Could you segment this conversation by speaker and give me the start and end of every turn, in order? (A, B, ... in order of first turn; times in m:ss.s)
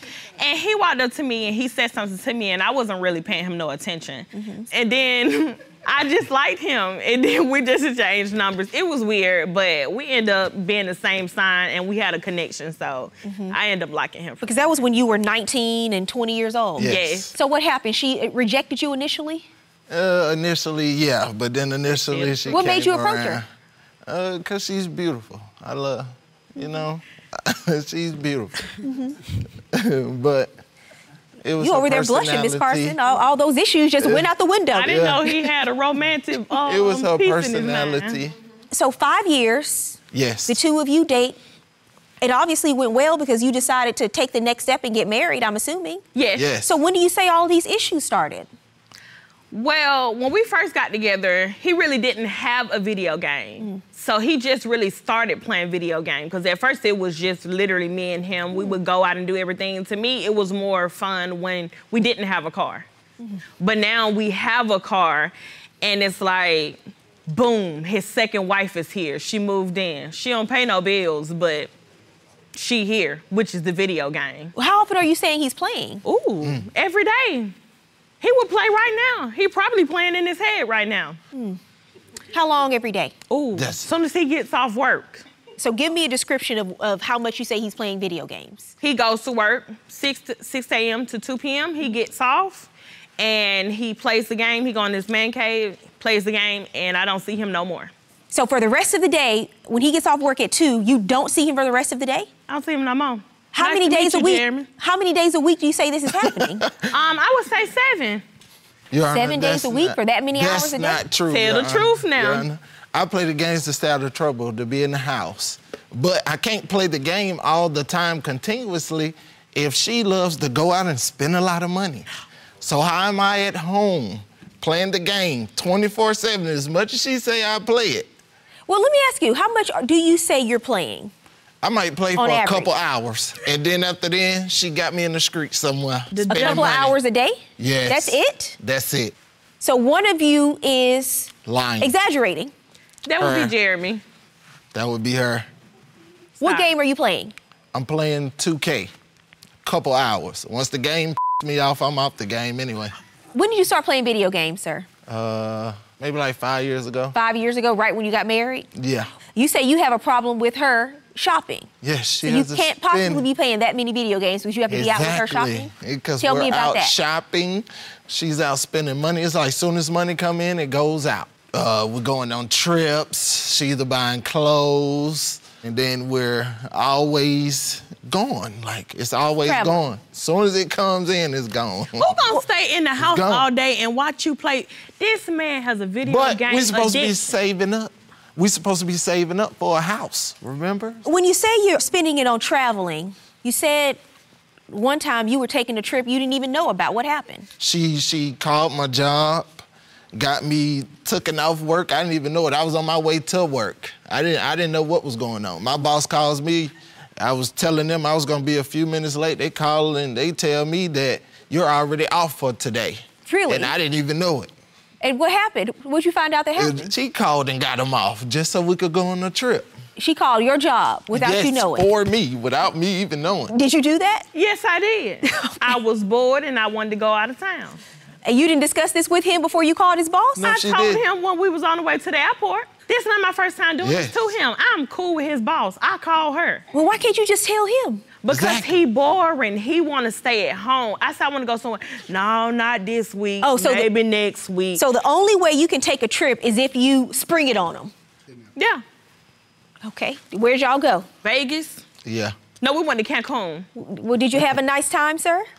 0:00.4-0:14.5 A
0:04.3-0:04.7 B
0:13.2-0:13.6 B
0:14.4-0:19.5 B
0:16.8-0:17.3 C
0:16.8-0:17.3 A
0:19.9-0:23.4 C
0:21.9-0:22.6 A
0:22.4-0:23.4 B
0:24.1-0:28.7 C
0:28.8-0:29.2 B
0:29.7-0:30.5 C
0:31.4-0:33.0 C
0:31.6-0:35.0 B
0:34.0-0:34.3 C
0:34.7-0:38.2 A
0:34.8-0:35.5 C
0:36.6-0:38.3 C
0:38.7-0:41.4 B
0:40.1-0:40.6 C
0:42.2-0:46.0 B
0:46.1-0:46.5 A
0:46.4-0:46.7 C
0:46.6-0:48.5 B
0:49.5-1:02.9 A
1:03.6-1:11.7 A
1:12.5-1:14.5 A
1:14.5-1:16.0 B
1:16.0-1:17.5 A
1:18.2-1:21.2 A
1:21.3-1:21.6 B
1:22.3-1:23.1 B
1:23.3-1:25.2 A
1:23.5-1:23.9 C
1:25.6-1:28.7 B
1:28.8-1:37.9 A
1:38.3-1:42.3 B
1:42.5-1:44.7 A
1:43.5-1:46.7 B
1:46.2-1:46.9 C
1:46.9-1:48.2 A
1:48.9-2:02.1 C
1:49.1-1:51.0 B
1:51.3-1:52.5 A
2:02.6-2:08.1 C
2:08.7-2:11.1 B
2:11.6-2:17.0 C
2:12.2-2:12.7 B
2:16.1-2:16.9 A
2:16.3-2:18.6 B
2:17.6-2:19.1 C
2:19.6-2:22.5 B
2:21.4-2:21.9 C
2:23.0-2:24.0 A
2:23.2-2:23.5 C
2:24.7-2:25.5 C
2:26.4-2:27.3 B
2:26.4-2:26.7 A
2:27.7-2:28.9 C
2:29.6-2:32.9 C
2:33.3-2:34.9 B
2:35.1-2:37.2 C
2:37.1-2:38.7 B
2:38.8-2:39.1 C
2:39.3-2:41.7 B
2:41.8-2:43.2 C
2:42.2-2:47.0 B
2:44.7-3:02.2 C
2:59.4-2:59.8 B
3:02.0-3:07.3 A
3:03.0-3:03.5 C
3:06.0-3:11.0 C
3:11.0-3:14.0 B
3:14.7-3:17.5 B
3:17.6-3:34.5 C
3:33.2-3:33.7 B
3:35.0-3:36.9 B
3:36.6-3:39.7 C
3:40.0-3:41.9 B
3:41.1-3:43.5 C
3:43.5-3:44.2 B
3:44.3-3:47.8 A
3:45.2-3:45.7 B
3:48.2-3:50.5 B
3:50.4-3:51.0 C
3:50.4-3:56.6 A
3:53.8-3:54.3 C
3:56.7-3:58.0 B
3:58.2-4:04.8 A
3:58.3-3:58.8 C
4:03.4-4:03.9 B
4:04.7-4:07.9 B
4:08.6-4:08.8 A
4:09.8-4:11.1 B
4:11.2-4:11.8 A
4:12.0-4:12.4 C
4:12.6-4:13.7 A
4:13.8-4:15.5 B